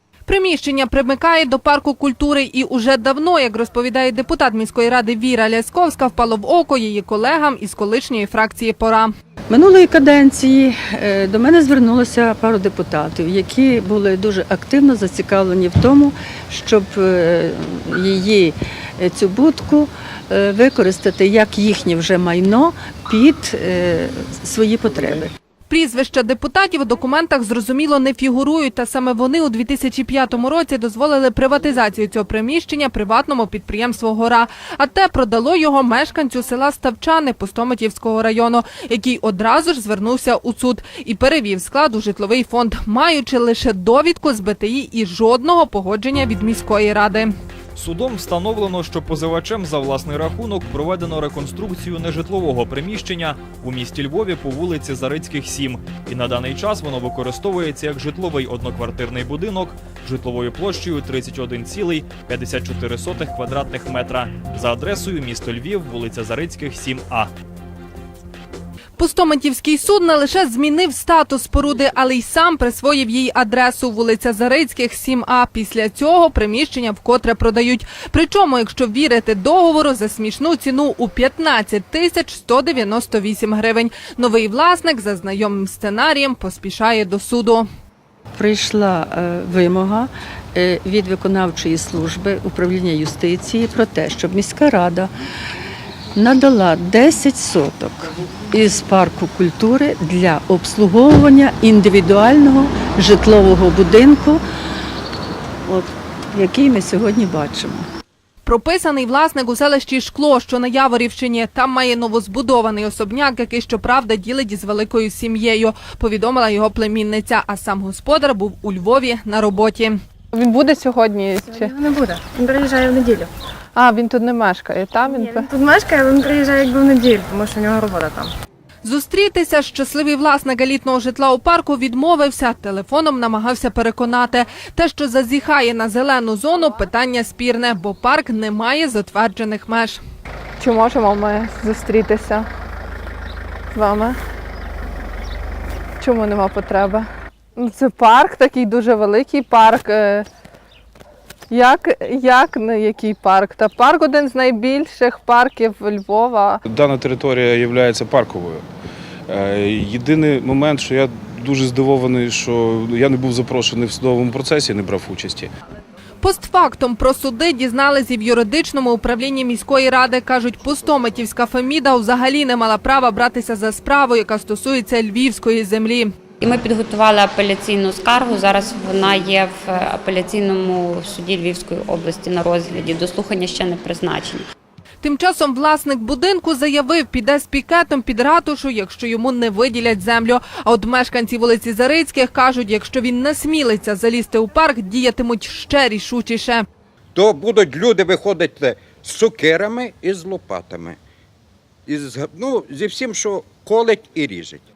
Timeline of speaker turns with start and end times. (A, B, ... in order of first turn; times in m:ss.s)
0:00.3-0:09.1 A
0:09.5-0:25.3 B
0:25.7-0:47.3 A
0:47.8-1:07.3 C
1:09.0-1:27.7 A
1:28.4-1:35.1 B
1:36.2-1:44.4 B
1:45.7-1:47.9 B
1:48.4-2:01.7 A
2:01.5-2:03.3 D
2:03.8-2:05.5 A
2:05.0-2:08.3 D
2:08.8-2:20.0 A
2:20.6-2:22.5 A
2:23.7-2:24.2 A
2:26.0-2:30.3 A
2:31.5-2:36.6 A
2:36.7-2:38.6 E
2:39.3-2:45.5 E
2:46.2-2:56.1 A
2:56.4-3:04.4 F
3:05.0-3:16.6 A
3:17.2-3:21.0 G
3:21.9-3:24.6 G